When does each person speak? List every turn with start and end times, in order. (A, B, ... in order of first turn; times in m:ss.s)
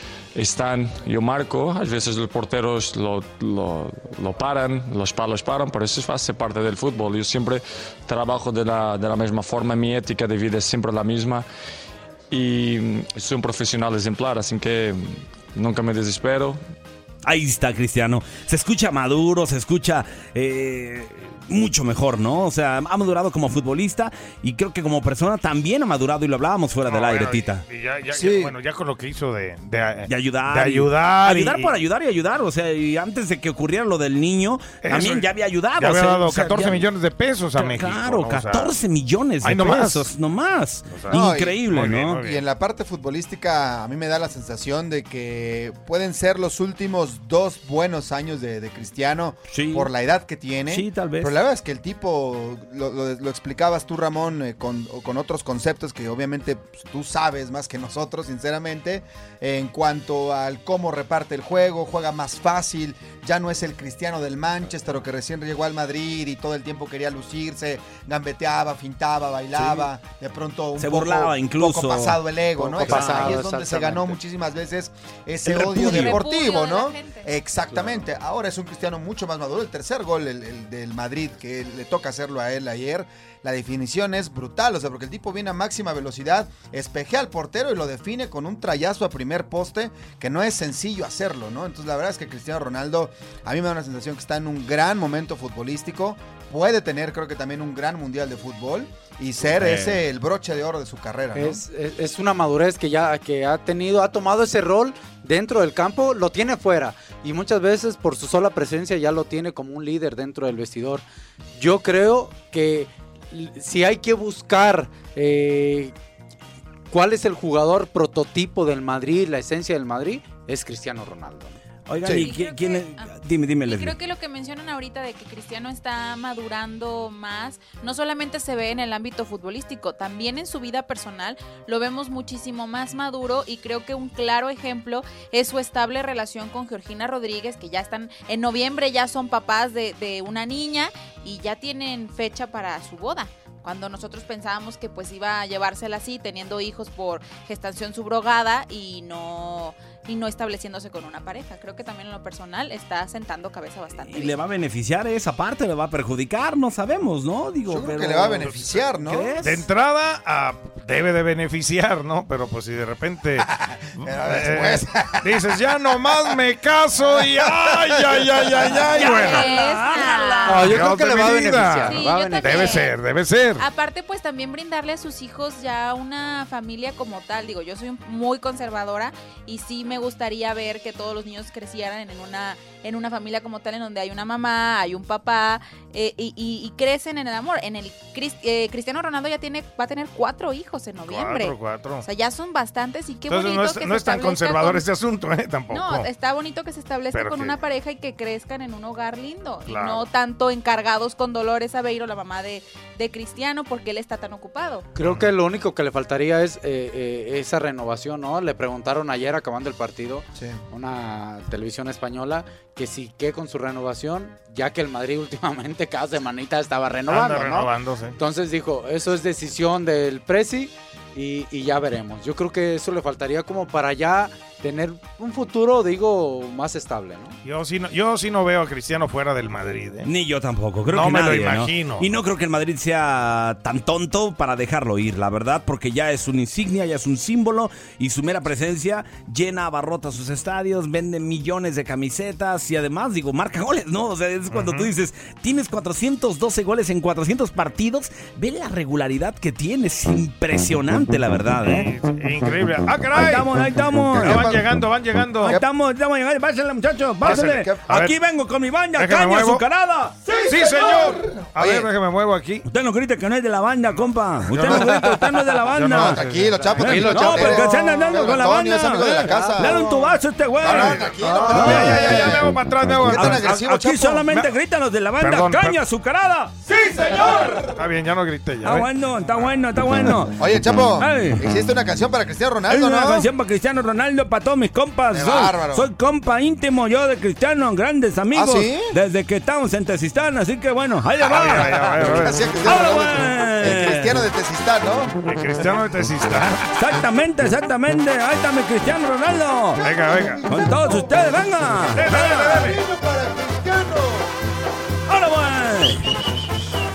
0:00.3-0:11.4 A
0:12.3-0:16.6 A
0:17.2-0:27.6 B
0:26.8-0:31.8 C
0:28.1-0:28.5 D
0:30.0-0:36.9 B
0:34.8-0:38.7 C
0:37.5-0:42.2 B
0:39.4-0:40.1 C
0:40.9-0:42.4 C
0:41.1-1:41.6 D
0:49.5-0:49.9 B
0:50.7-0:51.4 B
1:09.6-1:09.8 B
1:10.8-1:12.2 B
1:12.6-1:14.2 E
1:12.8-1:13.4 B
1:15.4-1:16.2 B
1:15.8-1:17.3 F
1:17.7-1:18.0 E
1:39.5-1:40.0 B
1:41.3-1:51.0 E
1:51.6-1:55.9 E
1:56.9-2:01.6 E
2:01.9-2:04.0 B
2:02.0-2:03.1 F
2:03.6-2:34.4 F
2:34.0-2:39.6 B
2:37.7-2:39.4 D
2:39.4-2:49.5 C
2:43.4-2:45.4 D
2:47.0-2:49.0 D
2:48.8-2:50.9 B
2:49.0-2:50.8 F
2:50.4-2:52.8 E
2:50.7-2:53.6 C
2:51.9-2:52.9 F
2:53.6-3:14.8 F
3:11.0-3:12.1 C
3:13.3-3:16.1 C
3:15.7-3:24.8 F
3:17.1-3:17.6 C
3:19.7-3:20.1 C
3:25.0-3:47.4 E
3:37.1-3:38.2 C
3:47.4-3:50.1 C
3:50.0-4:11.9 B
3:50.9-3:52.1 C
4:04.5-4:04.9 C
4:11.6-4:13.6 C
4:13.1-4:14.7 B
4:14.1-4:15.6 C
4:14.1-4:14.8 D
4:15.4-4:20.2 B
4:17.2-4:18.0 D
4:17.2-4:18.1 C
4:18.9-4:19.6 C
4:20.3-4:21.9 D
4:20.4-4:22.6 C
4:22.6-4:26.2 B
4:24.5-4:24.8 C
4:24.5-4:25.0 D
4:25.7-4:27.2 C
4:25.9-4:34.3 D
4:26.8-4:32.5 B
4:27.2-4:27.7 E
4:30.6-4:33.6 C
4:33.1-4:37.4 B
4:35.2-4:35.8 C
4:36.8-4:37.8 D
4:37.1-4:38.9 C
4:38.6-4:40.4 B
4:40.4-4:43.3 D
4:41.0-4:41.5 B
4:42.7-4:51.8 B
4:45.1-4:45.9 D
4:48.3-4:48.9 D
4:51.2-4:52.4 C
4:51.6-4:55.1 D
4:52.6-4:54.2 B
4:55.2-4:56.7 C
4:56.7-4:59.8 B
4:59.8-5:01.0 D
4:59.8-5:00.4 C
5:00.5-5:02.7 B
5:01.9-5:04.3 D
5:02.0-5:02.8 C
5:05.1-5:06.1 B